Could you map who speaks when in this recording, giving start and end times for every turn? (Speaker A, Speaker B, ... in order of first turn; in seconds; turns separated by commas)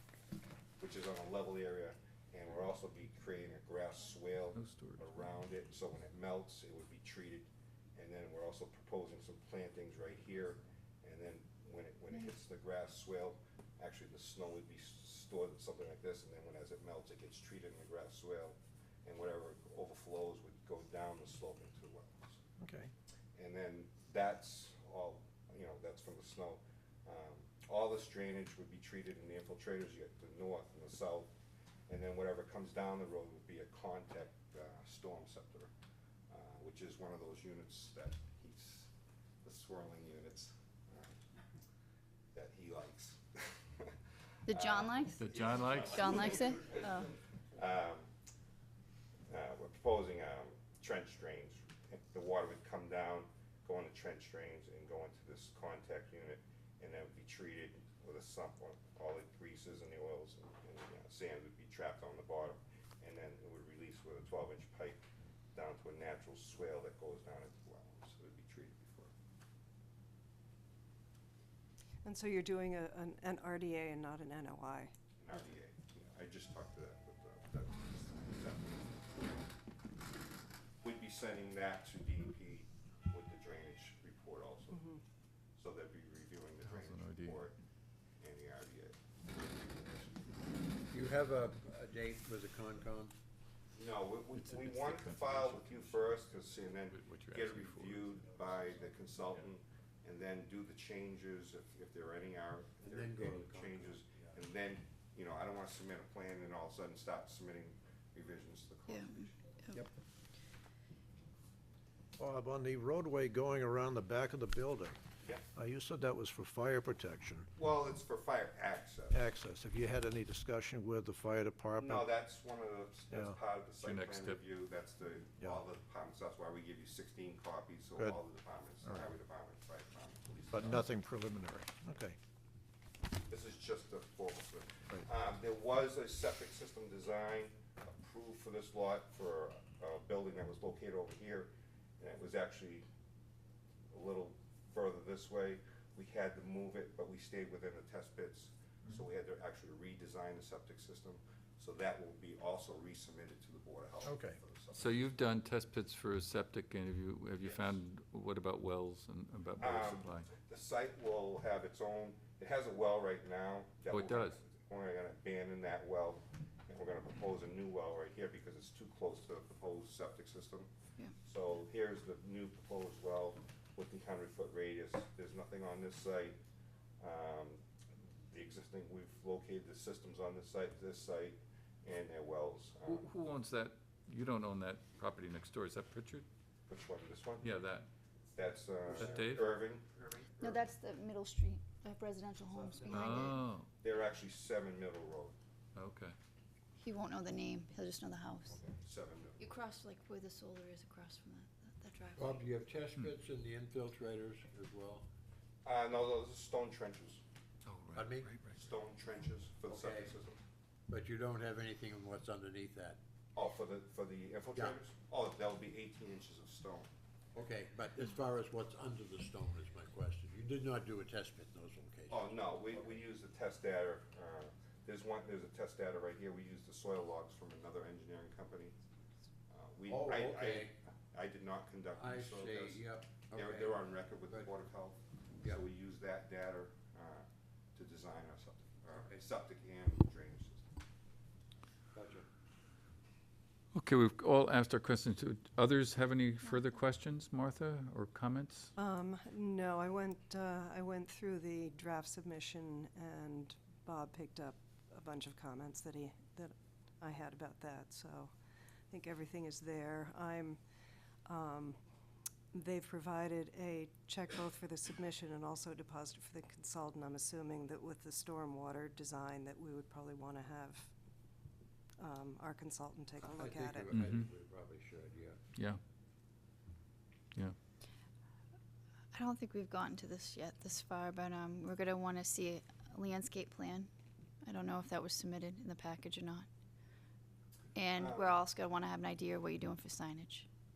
Speaker A: 0.8-22.4, Speaker B: 4.5-5.3, Speaker C: 22.6-22.9, Speaker A: 23.3-31.3, Speaker A: 31.9-35.7, Speaker A: 36.3-38.9, Speaker A: 39.4-41.2, Speaker A: 42.3-43.9, Speaker D: 44.5-45.3, Speaker A: 44.5-48.1, Speaker B: 45.2-46.4, Speaker D: 45.8-47.1, Speaker A: 49.3-65.0, Speaker A: 65.5-69.1, Speaker E: 72.0-75.4, Speaker A: 75.2-79.5, Speaker A: 80.8-84.8, Speaker E: 84.7-85.0, Speaker A: 85.6-87.5, Speaker B: 86.6-87.5, Speaker A: 88.2-90.1, Speaker F: 90.9-93.1, Speaker A: 93.7-109.4, Speaker B: 94.3-96.0, Speaker B: 96.9-98.2, Speaker F: 102.8-104.0, Speaker D: 108.9-109.8, Speaker C: 112.2-115.0, Speaker C: 115.5-117.5, Speaker A: 117.5-119.2, Speaker C: 119.1-122.1, Speaker A: 121.8-130.9, Speaker C: 123.1-123.4, Speaker B: 123.8-124.4, Speaker C: 128.0-128.2, Speaker C: 128.8-129.1, Speaker C: 130.5-132.2, Speaker A: 133.3-142.8, Speaker A: 143.9-155.1, Speaker C: 154.0-154.4, Speaker B: 154.7-160.3, Speaker A: 157.4-157.8, Speaker A: 159.6-170.7, Speaker B: 163.9-164.4, Speaker A: 171.2-176.4, Speaker A: 177.0-177.6, Speaker A: 178.3-183.1, Speaker B: 182.8-186.2, Speaker A: 186.7-187.5, Speaker B: 187.4-187.9, Speaker A: 188.3-190.7, Speaker B: 188.8-189.7, Speaker D: 190.4-193.4, Speaker B: 192.9-193.7, Speaker A: 193.8-195.3, Speaker B: 195.7-196.1, Speaker D: 196.8-198.6, Speaker A: 198.5-199.5, Speaker D: 199.4-202.5, Speaker F: 202.2-205.1, Speaker A: 205.6-207.2, Speaker B: 207.7-208.5, Speaker F: 207.9-208.3, Speaker A: 208.5-210.4, Speaker F: 209.7-210.2, Speaker F: 210.9-213.0, Speaker A: 213.3-216.9, Speaker F: 217.3-222.5, Speaker A: 222.1-228.7, Speaker A: 229.5-240.7, Speaker F: 229.9-230.7, Speaker F: 231.9-234.5, Speaker F: 241.9-242.3, Speaker B: 243.7-248.7, Speaker D: 246.4-246.7, Speaker E: 248.8-258.4, Speaker E: 258.9-260.6, Speaker E: 261.2-261.8, Speaker E: 262.5-270.9, Speaker E: 272.0-274.0, Speaker F: 273.2-275.4, Speaker B: 273.9-274.3, Speaker B: 275.5-275.8, Speaker D: 279.1-283.9, Speaker D: 284.4-286.5, Speaker D: 287.7-290.5, Speaker A: 287.9-288.4